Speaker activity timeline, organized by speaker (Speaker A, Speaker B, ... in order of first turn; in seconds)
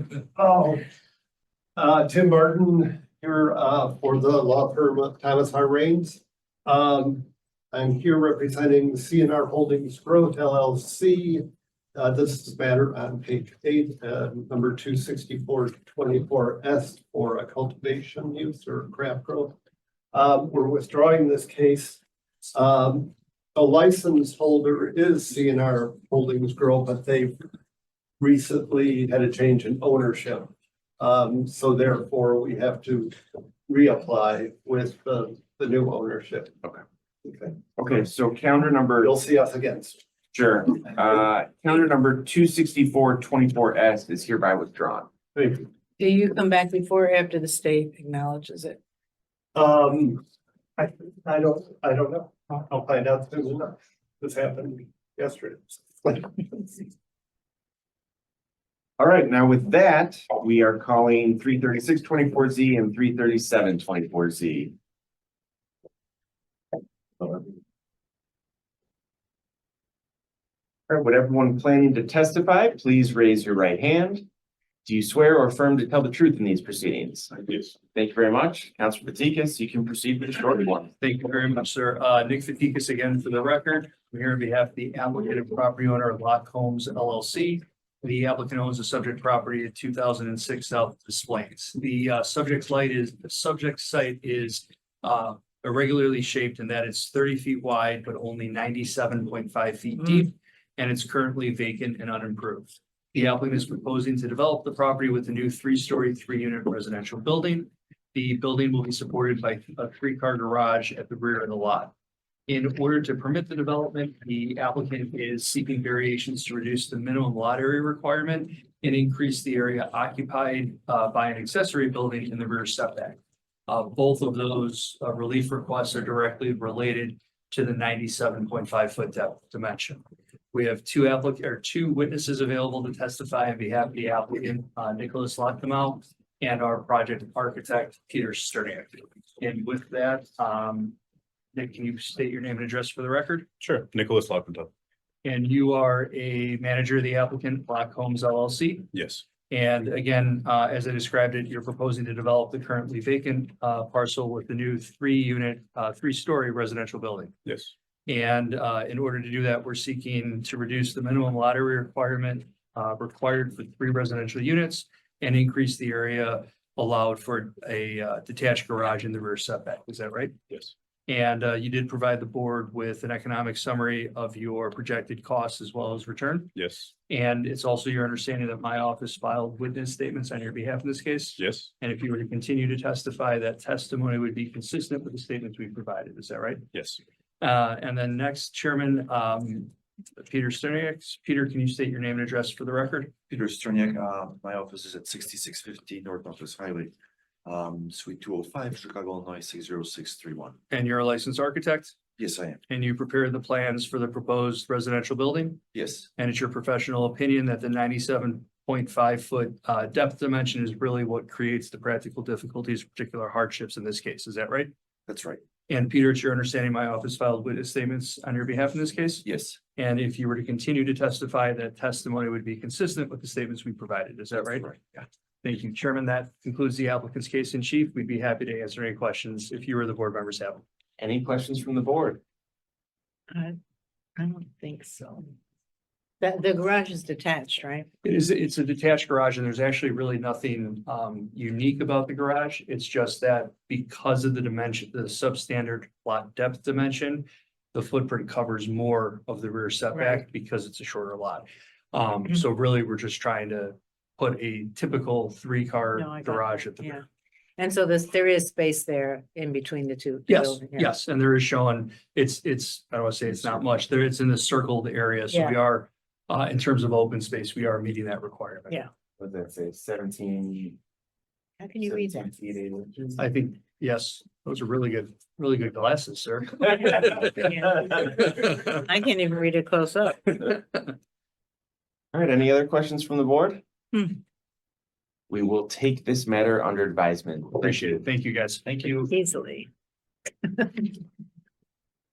Speaker A: 0.3-0.8, 1.8-11.4, 11.9-19.6, 20.1-22.0, 22.5-27.4, 28.2-36.5, 37.2-37.9, 39.0-40.0, 45.3-45.7, 49.5-50.2, 50.8-56.8
Speaker B: 37.8-39.1, 40.3-45.1, 59.0-64.7, 67.2-67.5, 70.9-74.2, 74.8-80.9, 231.0-232.2, 269.2-270.8, 271.8-273.2, 282.1-283.6, 285.3-288.0
Speaker C: 46.0-48.8, 233.3-233.6, 234.2-235.3, 236.2-237.9, 249.9-250.2, 255.9-257.0, 257.6-260.9, 265.3-265.6, 271.6-272.3, 277.3-280.4, 288.8-289.7, 290.5-290.9
Speaker D: 81.0-111.9, 112.5-130.0, 130.5-140.9, 141.5-143.5, 145.2-148.9, 149.5-157.3, 158.1-170.3, 171.1-176.5, 177.1-186.7, 187.4-193.1, 200.7-202.0, 202.7-205.6, 206.2-214.7, 215.7-224.7, 225.4-230.6, 238.0-257.0, 260.3-268.8, 273.2-277.4, 287.6-289.1
Speaker E: 143.6-144.7, 148.9-149.2, 157.4-157.7, 176.5-176.9, 181.4-181.7, 186.7-187.0
Speaker F: 193.3-196.9, 197.5-200.5, 202.2-202.4, 205.7-206.0, 215.1-215.4, 219.2-219.6